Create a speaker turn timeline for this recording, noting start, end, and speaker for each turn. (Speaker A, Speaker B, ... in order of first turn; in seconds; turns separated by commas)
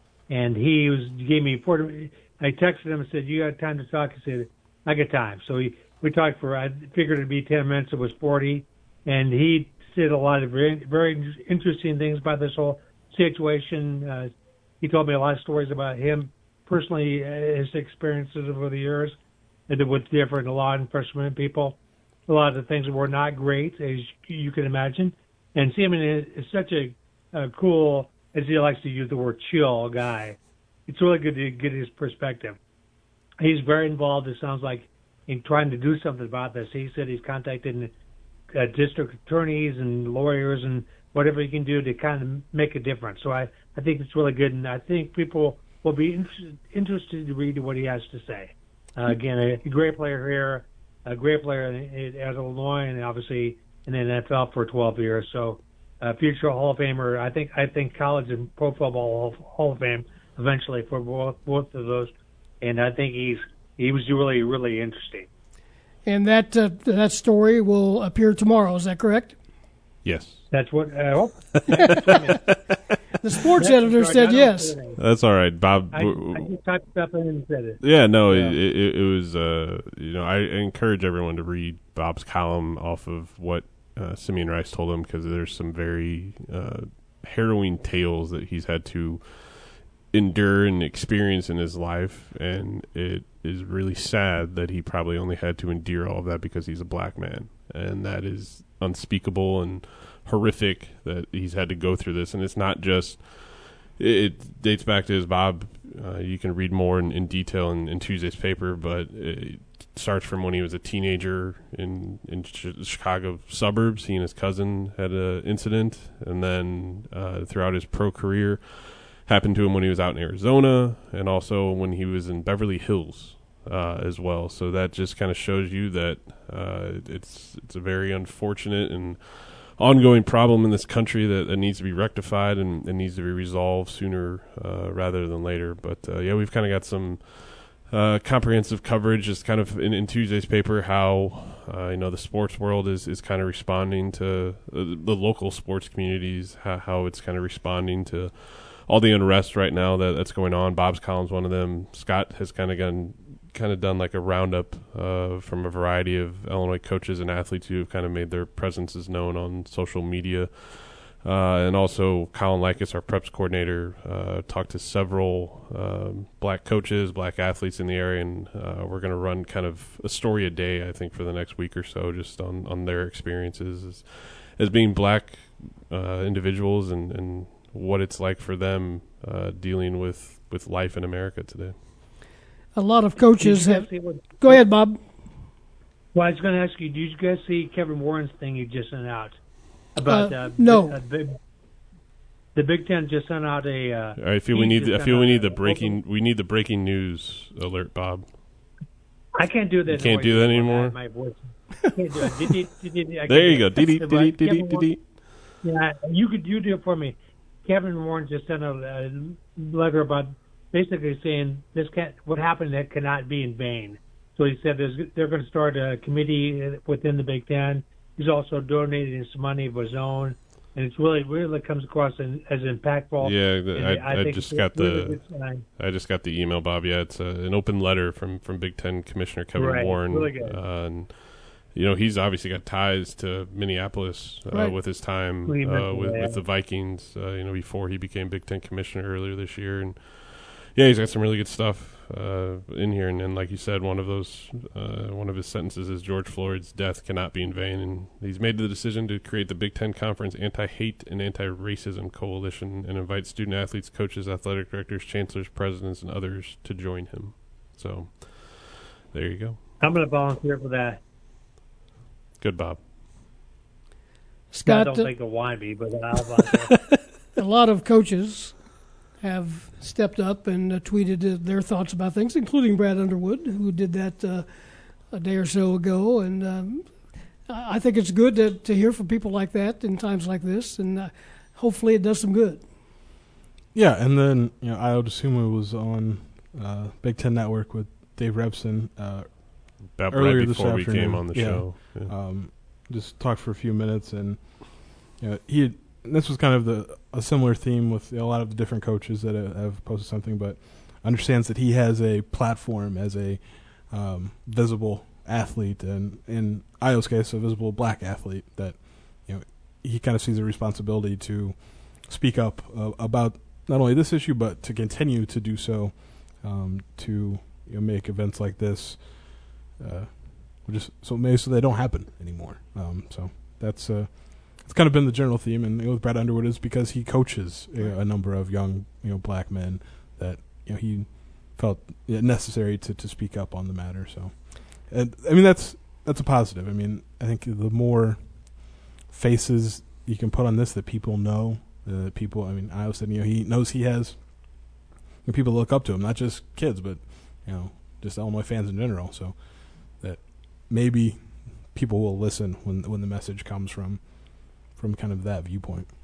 Speaker A: 0.3-14.3, Speaker A: 14.8-19.2, Speaker A: 19.7-32.6, Speaker A: 33.4-37.9, Speaker A: 38.5-65.3, Speaker B: 66.0-69.3, Speaker C: 70.0-70.5, Speaker A: 70.5-72.5, Speaker C: 71.7-72.5, Speaker B: 73.2-74.8, Speaker A: 73.6-75.0, Speaker C: 75.0-76.5, Speaker A: 75.9-78.5, Speaker C: 77.8-181.7, Speaker B: 182.7-185.0, Speaker A: 183.4-184.6, Speaker A: 186.1-189.4, Speaker A: 189.9-191.4, Speaker B: 190.0-191.0, Speaker A: 192.5-196.0, Speaker C: 194.2-198.3, Speaker A: 199.3-204.9, Speaker C: 199.9-200.9, Speaker C: 203.3-205.1, Speaker A: 205.6-225.6, Speaker C: 223.2-225.2, Speaker C: 225.8-259.6, Speaker A: 229.5-230.6, Speaker B: 234.5-234.8, Speaker A: 235.4-236.4, Speaker A: 259.8-261.0, Speaker C: 262.4-262.8, Speaker B: 264.5-265.1, Speaker A: 264.6-266.7, Speaker B: 267.3-268.6, Speaker B: 269.2-274.4, Speaker B: 275.1-282.6, Speaker D: 283.7-355.9, Speaker C: 289.9-292.1